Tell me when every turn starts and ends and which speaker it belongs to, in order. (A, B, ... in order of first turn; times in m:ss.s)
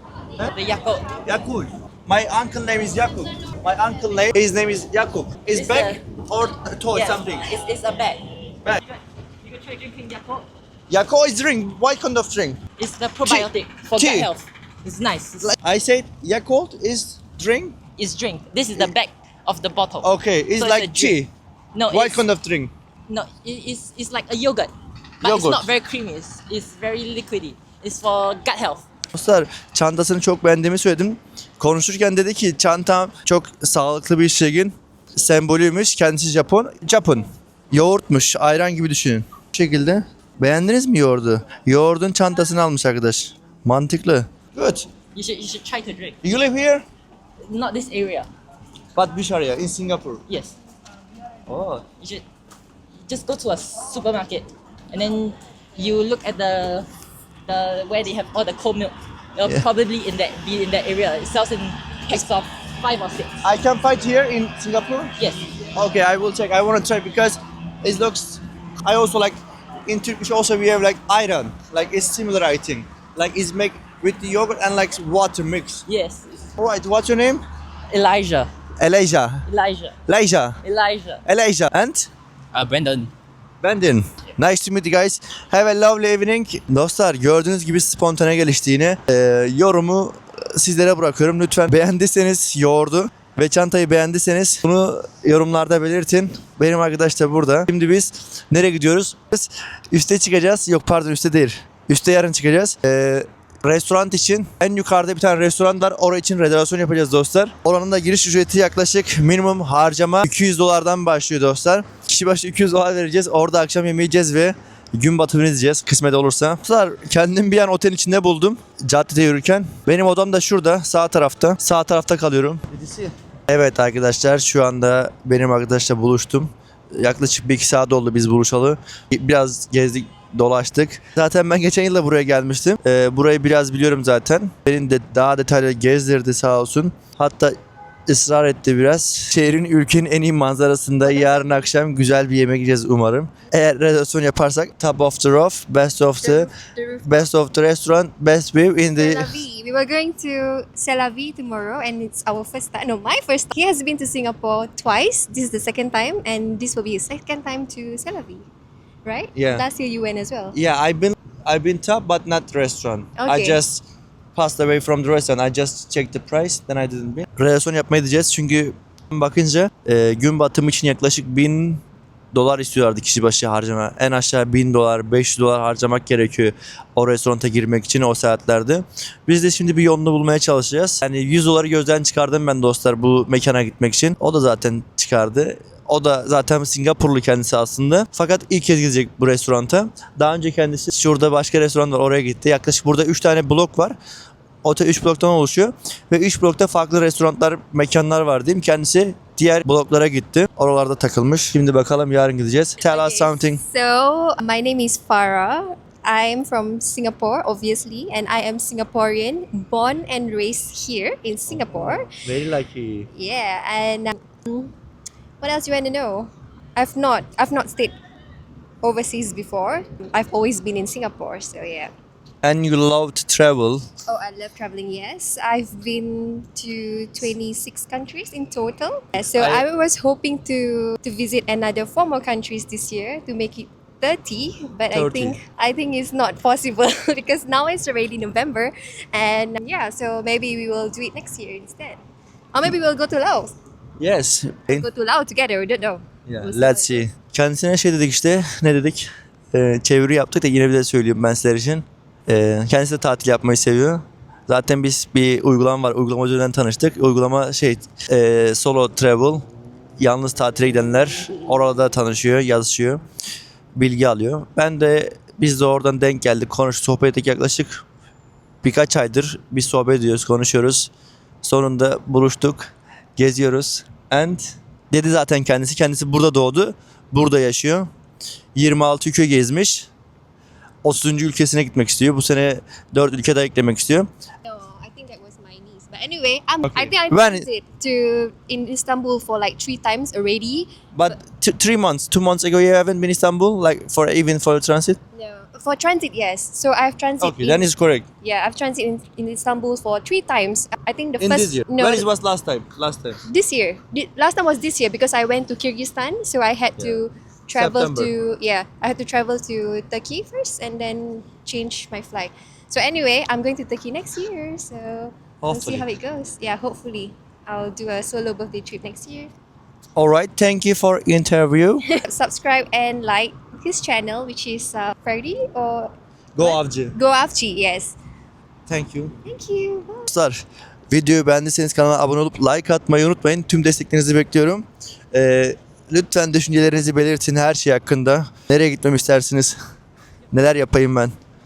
0:00.5-0:01.1 A
0:01.2-0:07.5 B
0:05.5-0:06.0 A
0:06.9-0:10.5 A
0:10.9-0:12.6 B
0:12.8-0:15.5 A
0:13.2-0:14.3 B
0:15.4-0:17.8 B
0:18.0-0:21.2 A
0:20.0-0:21.3 B
0:21.7-0:22.3 A
0:21.9-0:22.7 B
0:23.1-0:28.8 A
0:25.2-0:25.7 B
0:29.1-0:44.9 B
0:45.1-0:46.2 A
0:46.2-0:46.8 B
0:47.5-0:48.3 A
0:49.0-0:50.2 B
0:50.3-0:50.6 A
0:51.5-0:51.8 B
0:52.0-0:52.2 A
0:53.1-0:56.9 A
0:57.5-1:03.4 A
1:03.4-1:05.1 B
1:05.2-1:05.4 A
1:05.7-1:15.8 B
1:15.9-1:16.3 A
1:16.6-1:17.4 B
1:17.9-1:18.5 A
1:18.8-1:19.5 B
1:19.5-1:20.0 A
1:20.1-1:20.6 B
1:20.6-1:21.2 A
1:21.2-1:22.1 B
1:22.5-1:23.1 A
1:23.6-2:17.6 B
2:18.1-2:26.5 B
2:21.1-2:21.4 C
2:26.2-2:27.1 C
2:27.0-2:29.4 B
2:29.0-2:38.5 C
2:39.0-2:40.6 C
2:39.4-2:39.6 B
2:40.5-3:14.0 B
2:43.2-2:43.6 C
3:14.6-3:23.6 B
3:22.8-3:32.1 C
3:32.1-3:33.1 B
3:33.1-3:34.7 C
3:35.4-3:37.9 C
3:38.8-3:41.9 C
3:42.4-3:43.9 B
3:44.1-4:02.0 C
3:49.3-3:49.6 B
3:54.9-3:55.4 B
4:02.5-4:03.5 C
4:04.0-4:04.9 B
4:04.7-4:07.1 C
4:06.3-4:19.4 B
4:20.0-4:23.0 B
4:23.8-4:27.8 B
4:28.6-4:30.9 B
4:31.4-4:37.9 B
4:38.6-4:39.9 B
4:40.8-4:44.1 B
4:44.4-4:51.1 C
4:46.7-4:47.5 B
4:50.9-4:55.0 B
4:55.1-4:57.7 C
4:57.2-4:58.1 B
4:58.2-5:02.1 C
5:01.2-5:03.2 B
5:03.3-5:19.3 C
5:07.6-5:08.1 B
5:15.4-5:15.9 B
5:20.0-5:21.8 B
5:21.9-5:28.0 C
5:26.4-5:27.0 B
5:28.7-5:29.2 B
5:29.2-5:30.1 C
5:30.1-5:39.6 B
5:40.3-5:41.1 B